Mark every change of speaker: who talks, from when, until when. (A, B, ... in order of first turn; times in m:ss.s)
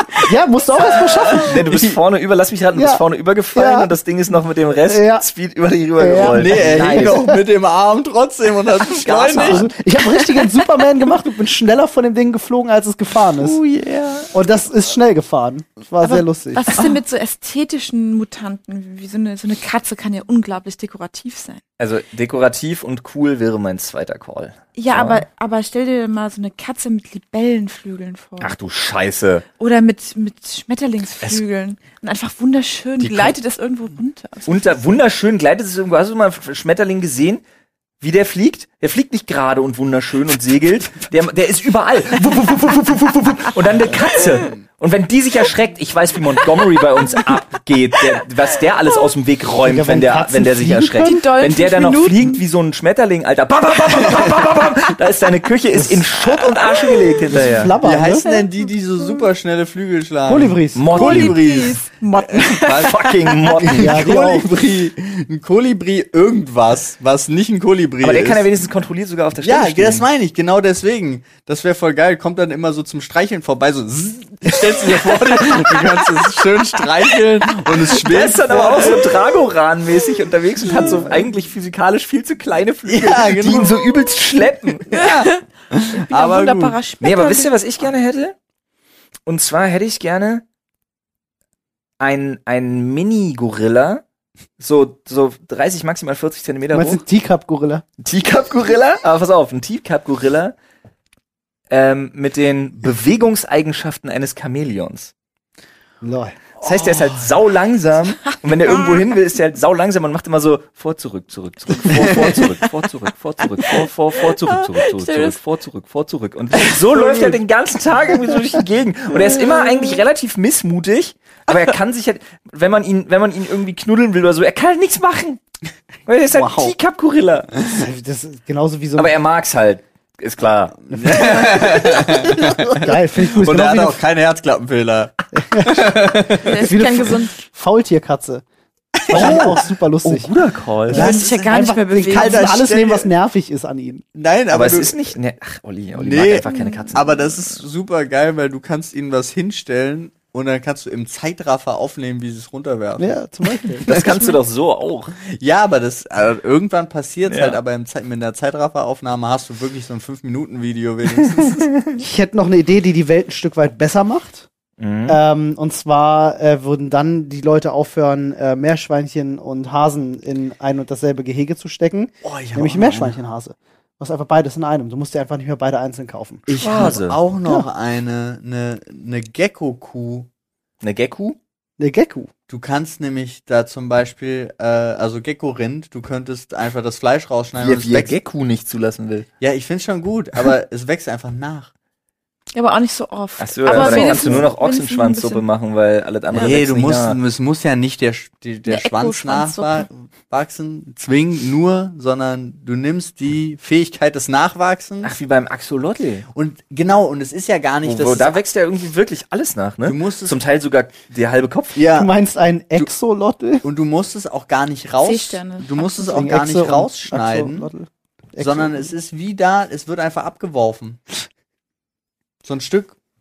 0:00.1-0:01.9 A
0:00.9-0:07.4 B
0:01.5-0:01.8 C
0:02.8-0:03.0 A
0:03.6-0:03.9 A
0:04.9-0:05.2 A
0:06.0-0:07.4 A
0:06.1-0:09.7 C
0:08.8-0:09.7 B
0:09.4-0:13.6 A
0:13.3-0:14.3 B
0:14.3-0:16.8 A
0:16.0-0:21.6 D
0:21.8-0:25.2 B
0:24.8-0:28.6 D
0:28.4-0:29.4 B
0:29.6-0:34.8 D
0:33.0-0:33.4 C
0:34.5-0:37.4 B
0:38.0-0:57.8 B
0:43.9-0:44.6 C
0:49.6-0:51.2 A
0:51.0-0:52.4 D
0:55.8-0:56.0 A
0:57.3-0:58.2 A
0:57.8-1:08.5 C
0:58.2-0:58.5 D
1:00.3-1:00.9 A
1:00.8-1:01.4 B
1:00.9-1:03.6 D
1:02.7-1:04.3 B
1:03.7-1:04.5 A
1:08.0-1:10.1 B
1:09.4-1:19.4 C
1:17.7-1:25.0 B
1:20.7-1:21.1 C
1:22.9-1:23.9 C
1:24.9-1:26.8 C
1:24.9-1:27.5 D
1:27.0-1:28.4 B
1:29.3-1:30.4 B
1:32.0-1:34.0 B
1:34.6-1:37.0 B
1:36.7-1:37.8 A
1:38.0-1:40.6 B
1:41.7-1:45.1 B
1:46.0-1:46.4 A
1:46.6-2:05.4 B
1:46.6-1:47.3 C
1:51.8-1:52.4 C
1:54.4-1:55.4 D
1:56.9-1:57.3 C
2:06.1-2:07.5 B
2:06.3-2:06.7 C
2:07.6-2:09.1 A
2:09.0-2:10.8 B
2:10.9-2:16.7 C
2:10.9-2:14.0 A
2:15.4-2:18.4 A
2:16.4-2:17.3 D
2:19.0-2:19.6 C
2:19.1-2:20.3 A
2:19.1-2:21.1 B
2:20.9-2:24.1 A
2:20.9-2:23.1 C
2:20.9-2:22.6 D
2:24.2-2:25.1 C
2:24.5-2:27.4 B
2:26.0-2:33.2 C
2:26.5-2:26.9 D
2:33.0-2:34.1 A
2:33.8-2:35.2 B
2:35.2-2:41.7 C
2:37.3-2:37.6 B
2:41.4-2:42.0 B
2:42.0-2:44.5 A
2:44.8-2:45.2 B
2:45.1-2:56.9 A
2:52.2-2:53.2 C
2:56.5-3:00.3 C
2:56.6-2:57.2 B
3:00.8-3:01.4 B
3:01.8-3:02.3 A
3:02.5-3:08.2 C
3:07.6-3:09.3 B
3:09.4-3:11.7 C
3:12.5-3:15.4 D
3:13.4-3:17.2 B
3:13.7-3:14.4 C
3:16.3-3:25.1 C
3:18.7-3:19.9 D
3:25.0-3:26.3 B
3:26.3-3:28.4 C
3:27.8-3:31.8 B
3:29.8-3:30.4 C
3:31.8-3:32.1 C
3:31.9-3:33.6 A
3:33.6-3:37.7 C
3:35.0-3:36.2 D
3:36.1-3:38.9 A
3:38.4-3:41.0 C
3:42.4-3:43.0 C